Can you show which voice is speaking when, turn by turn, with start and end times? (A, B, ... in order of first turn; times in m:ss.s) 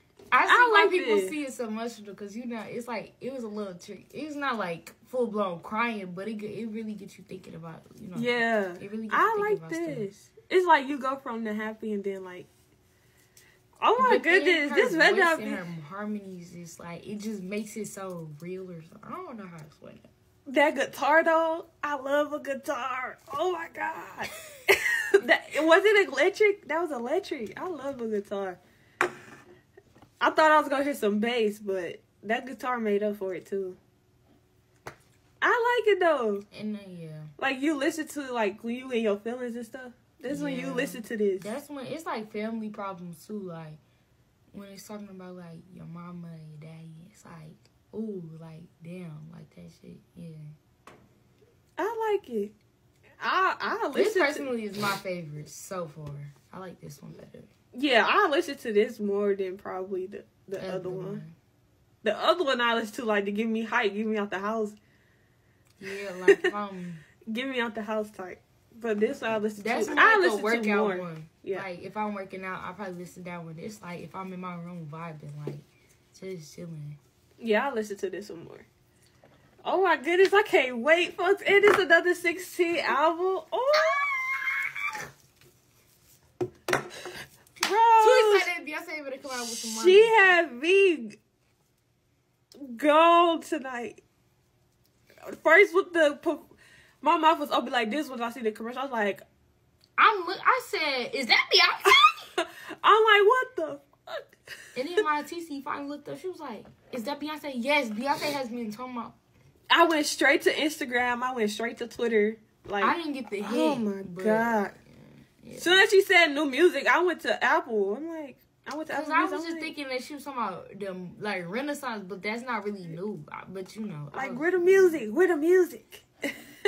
0:00.3-0:10.1 A
0:00.4-0:01.4 B
0:08.1-0:12.5 B
0:13.8-0:15.6 B
0:14.0-0:20.1 A
0:20.5-0:28.6 B
0:30.2-0:33.8 B
0:35.4-0:36.4 B
0:36.5-0:37.3 A
0:37.4-0:41.5 B
0:40.3-0:43.8 A
0:44.5-0:50.5 A
0:51.8-0:52.5 B
0:53.2-0:54.5 B
0:53.9-0:57.5 A
0:57.7-1:01.2 B
1:00.6-1:01.3 A
1:02.0-1:04.8 B
1:05.8-1:07.0 A
1:07.2-1:11.7 B
1:09.6-1:17.0 A
1:17.4-1:18.7 B
1:19.6-1:24.5 B
1:27.6-1:28.5 B
1:28.0-1:30.4 A
1:29.7-1:31.2 B
1:32.6-1:34.0 B
1:35.2-1:39.2 B
1:40.0-1:42.3 A
1:42.4-1:44.3 B
1:44.7-1:49.2 A
1:49.7-1:54.7 B
1:52.8-1:55.8 A
1:55.6-1:59.7 B
1:58.9-2:05.0 A
2:04.1-2:06.0 B